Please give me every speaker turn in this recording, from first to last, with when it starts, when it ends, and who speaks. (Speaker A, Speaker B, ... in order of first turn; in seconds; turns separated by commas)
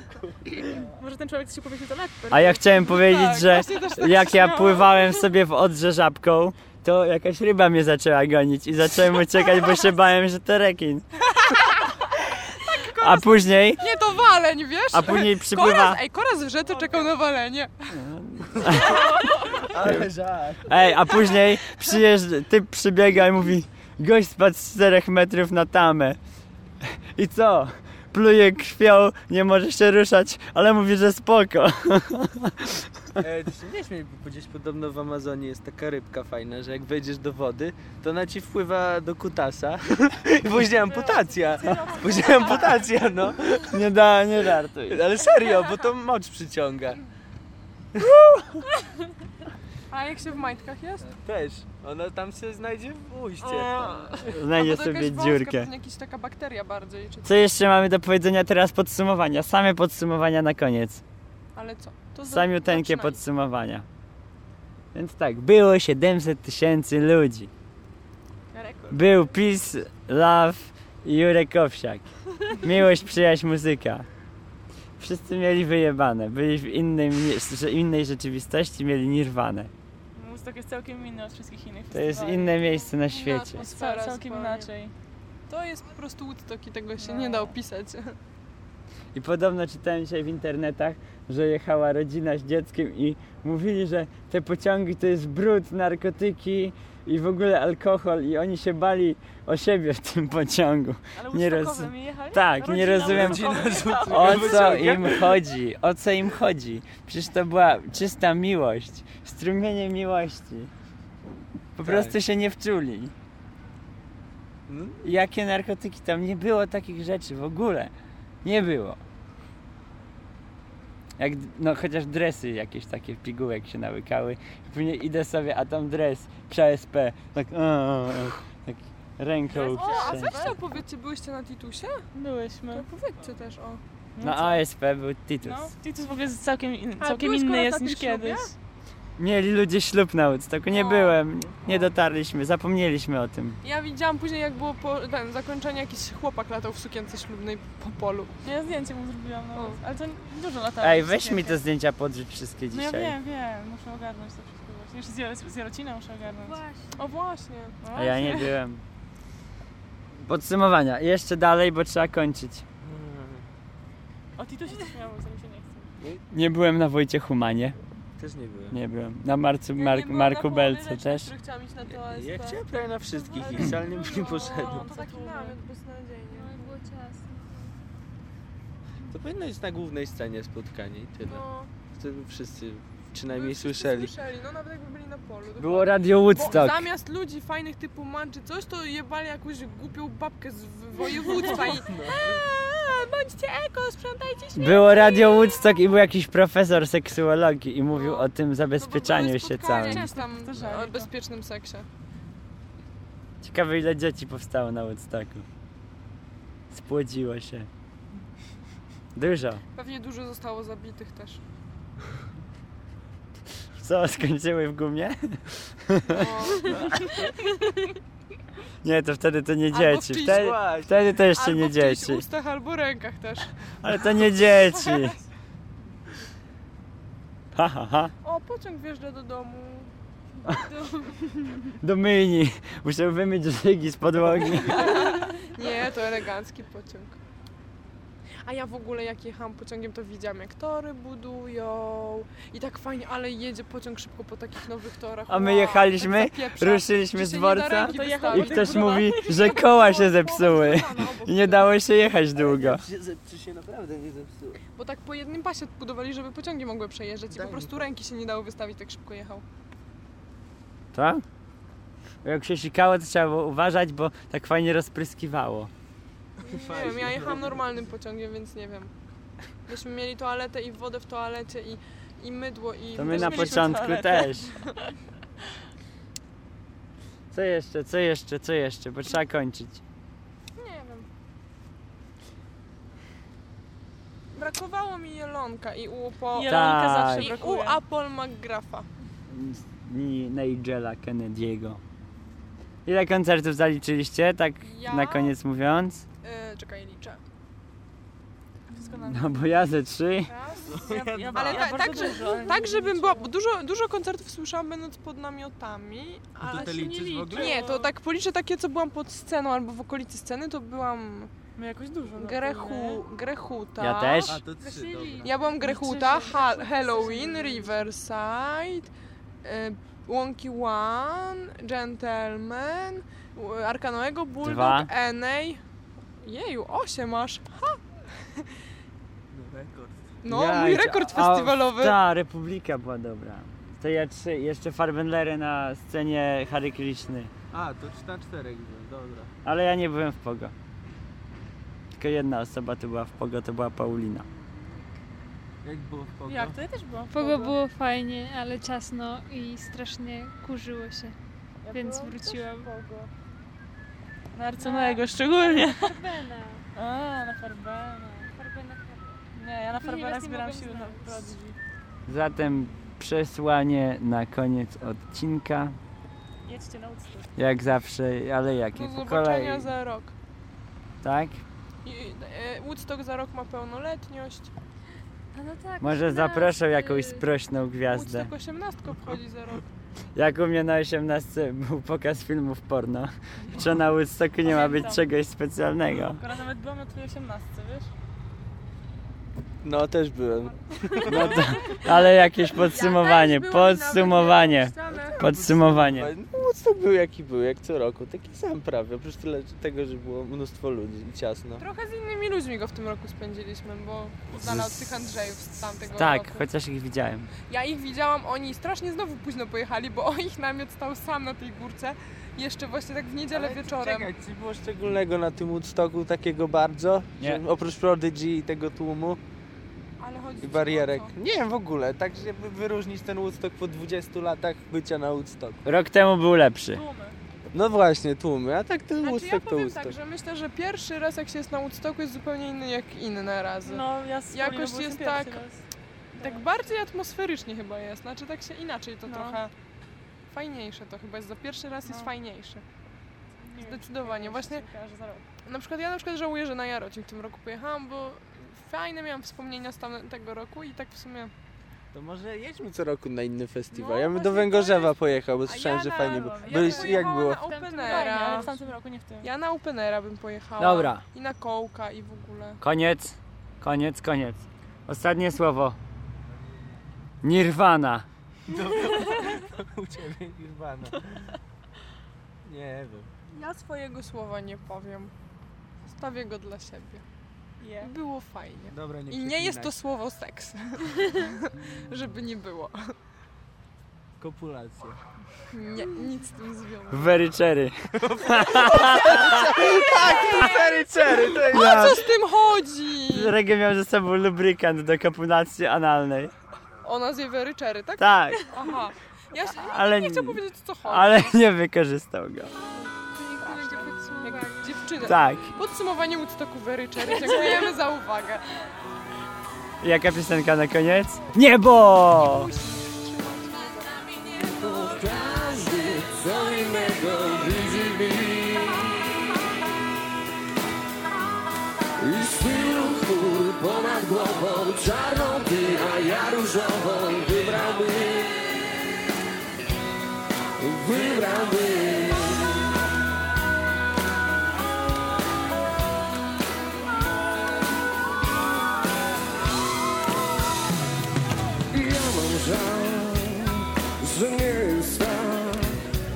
Speaker A: 0.8-2.6, Speaker B: 2.3-11.1, Speaker C: 2.8-5.2, Speaker C: 11.3-18.0, Speaker B: 13.0-13.8, Speaker B: 14.9-16.0, Speaker B: 17.9-19.0, Speaker D: 19.4-20.8, Speaker B: 19.8-20.1, Speaker B: 20.6-26.2, Speaker B: 27.1-32.9, Speaker D: 33.2-43.8, Speaker A: 40.9-43.0, Speaker B: 43.6-45.0, Speaker D: 44.9-47.0, Speaker B: 48.0-48.6, Speaker C: 49.9-51.1, Speaker D: 51.2-54.2, Speaker C: 53.4-57.3, Speaker B: 54.2-55.7, Speaker B: 57.2-61.0, Speaker C: 61.5-63.2, Speaker B: 62.2-63.9, Speaker B: 64.9-67.5, Speaker A: 68.5-69.1, Speaker B: 68.9-74.0, Speaker B: 75.0-79.7, Speaker A: 80.1-82.7, Speaker B: 81.9-83.6, Speaker C: 82.8-84.7, Speaker A: 83.7-84.9, Speaker C: 85.5-88.1, Speaker A: 87.0-87.5, Speaker B: 89.1-103.5, Speaker A: 101.2-105.1, Speaker D: 103.0-105.3, Speaker B: 104.1-110.7, Speaker B: 111.8-113.1, Speaker D: 111.8-112.2, Speaker D: 114.7-115.0, Speaker B: 115.0-117.9, Speaker B: 118.4-119.0, Speaker B: 121.2-130.3, Speaker A: 129.5-130.6, Speaker C: 129.5-132.0, Speaker A: 132.1-132.9, Speaker C: 132.7-133.8, Speaker A: 134.2-134.6, Speaker B: 134.2-135.7, Speaker A: 135.4-138.5, Speaker C: 137.0-138.5, Speaker B: 139.2-143.6, Speaker C: 140.7-141.1, Speaker C: 143.6-148.3, Speaker A: 148.4-151.6, Speaker B: 150.8-153.2, Speaker A: 152.7-156.6, Speaker E: 156.3-157.0, Speaker C: 156.9-157.8, Speaker A: 157.8-158.5, Speaker B: 157.9-158.8, Speaker B: 160.2-162.6, Speaker D: 162.8-163.4, Speaker A: 164.4-165.9, Speaker B: 166.3-167.8, Speaker D: 168.2-168.8, Speaker B: 168.7-171.3, Speaker C: 169.7-172.6, Speaker D: 171.9-174.9, Speaker C: 173.2-176.8, Speaker A: 173.6-175.6, Speaker E: 176.3-177.7, Speaker D: 179.1-184.1, Speaker C: 181.2-181.7, Speaker C: 183.3-195.6, Speaker B: 185.6-186.9, Speaker D: 191.3-192.4, Speaker B: 194.5-200.1, Speaker C: 197.9-201.9, Speaker A: 199.7-201.1, Speaker B: 203.4-205.4, Speaker B: 206.7-207.7, Speaker B: 209.1-209.6, Speaker C: 209.7-211.4, Speaker B: 213.8-216.8, Speaker C: 216.1-216.8, Speaker B: 218.8-222.2, Speaker C: 219.7-220.6, Speaker D: 220.2-221.0, Speaker C: 221.3-223.5, Speaker B: 223.8-225.2, Speaker C: 224.5-225.1, Speaker B: 227.5-228.1, Speaker C: 228.2-229.9, Speaker C: 230.5-231.3, Speaker B: 231.8-235.0, Speaker C: 234.7-237.2, Speaker C: 238.4-251.8, Speaker B: 245.3-252.8, Speaker A: 247.8-249.6, Speaker D: 252.3-254.6, Speaker C: 254.7-259.4, Speaker D: 257.3-257.9, Speaker B: 260.9-261.2, Speaker B: 262.2-265.7, Speaker D: 266.4-267.6, Speaker C: 266.4-268.9, Speaker C: 269.6-273.6, Speaker B: 272.9-274.5, Speaker A: 273.1-274.5, Speaker B: 277.3-279.8, Speaker C: 280.5-281.1, Speaker C: 284.3-288.9, Speaker A: 286.3-287.8, Speaker B: 286.4-287.3, Speaker B: 289.3-291.8, Speaker B: 292.9-296.0, Speaker C: 294.6-295.3, Speaker C: 296.2-297.2, Speaker A: 298.7-299.5, Speaker B: 299.0-300.3, Speaker C: 300.2-300.8, Speaker D: 300.6-302.1, Speaker A: 300.8-303.3, Speaker C: 301.3-311.3, Speaker E: 302.2-302.6, Speaker D: 306.4-307.6, Speaker A: 306.5-307.9, Speaker A: 311.6-313.0, Speaker C: 312.2-314.4, Speaker B: 313.8-314.4, Speaker D: 314.3-315.3, Speaker E: 314.6-317.8, Speaker C: 315.2-318.9, Speaker A: 315.6-316.3, Speaker A: 317.0-317.3, Speaker C: 319.4-325.6, Speaker B: 324.4-324.9, Speaker C: 326.2-327.8, Speaker D: 329.3-330.1, Speaker C: 330.2-332.0, Speaker B: 330.3-337.3, Speaker D: 337.5-339.3, Speaker B: 339.4-340.5, Speaker B: 342.0-344.2, Speaker D: 345.6-346.6, Speaker A: 346.2-347.6, Speaker E: 347.1-351.1, Speaker A: 351.6-353.1, Speaker E: 351.7-352.7, Speaker A: 354.3-356.0, Speaker E: 354.6-356.6, Speaker A: 356.7-358.3, Speaker E: 358.2-359.2, Speaker A: 359.3-361.6, Speaker E: 359.8-361.3, Speaker B: 362.1-365.8, Speaker A: 366.4-367.3, Speaker B: 367.4-369.7, Speaker C: 368.8-370.1, Speaker B: 371.0-371.4, Speaker C: 371.8-374.5, Speaker E: 375.3-377.2, Speaker B: 375.8-378.3, Speaker C: 377.9-379.7, Speaker B: 380.1-386.2, Speaker A: 384.4-385.0, Speaker A: 386.0-387.9, Speaker D: 389.6-391.4, Speaker B: 391.1-396.1, Speaker C: 392.5-395.2, Speaker D: 394.8-401.6, Speaker C: 401.6-406.4, Speaker B: 404.4-404.8, Speaker B: 405.9-407.3, Speaker C: 407.5-414.1, Speaker D: 413.3-419.2, Speaker C: 420.0-421.1, Speaker D: 420.4-425.6, Speaker B: 425.6-426.8, Speaker A: 426.7-427.1, Speaker D: 427.5-429.9, Speaker C: 429.0-435.4, Speaker A: 433.6-435.6, Speaker A: 436.1-436.4, Speaker C: 436.2-439.5, Speaker A: 439.1-439.4, Speaker C: 440.3-442.6, Speaker A: 441.9-442.1, Speaker A: 443.4-445.2, Speaker C: 443.6-444.7, Speaker C: 445.4-451.3, Speaker D: 451.9-457.4, Speaker C: 453.7-458.6, Speaker A: 456.1-457.1, Speaker E: 456.4-458.6, Speaker A: 457.8-459.3, Speaker C: 459.2-462.6, Speaker B: 460.6-461.0, Speaker B: 462.6-465.8, Speaker D: 466.3-466.8, Speaker B: 467.2-468.1, Speaker D: 468.5-471.3, Speaker D: 472.4-473.1, Speaker C: 473.3-475.1, Speaker C: 475.9-477.0, Speaker A: 477.6-477.9, Speaker C: 477.8-482.9, Speaker D: 478.7-479.7, Speaker D: 484.2-485.0, Speaker C: 485.5-487.2, Speaker B: 486.9-489.8, Speaker D: 488.0-492.0, Speaker C: 489.1-493.4, Speaker B: 491.5-492.1, Speaker B: 493.1-496.3, Speaker C: 496.8-501.4, Speaker B: 498.0-498.4, Speaker B: 499.4-502.5, Speaker E: 503.0-504.7, Speaker C: 503.4-508.4, Speaker B: 505.0-505.5, Speaker B: 509.8-512.5, Speaker C: 511.9-514.3, Speaker F: 514.4-518.9, Speaker F: 522.0-528.3, Speaker F: 530.6-532.5, Speaker F: 541.7-545.8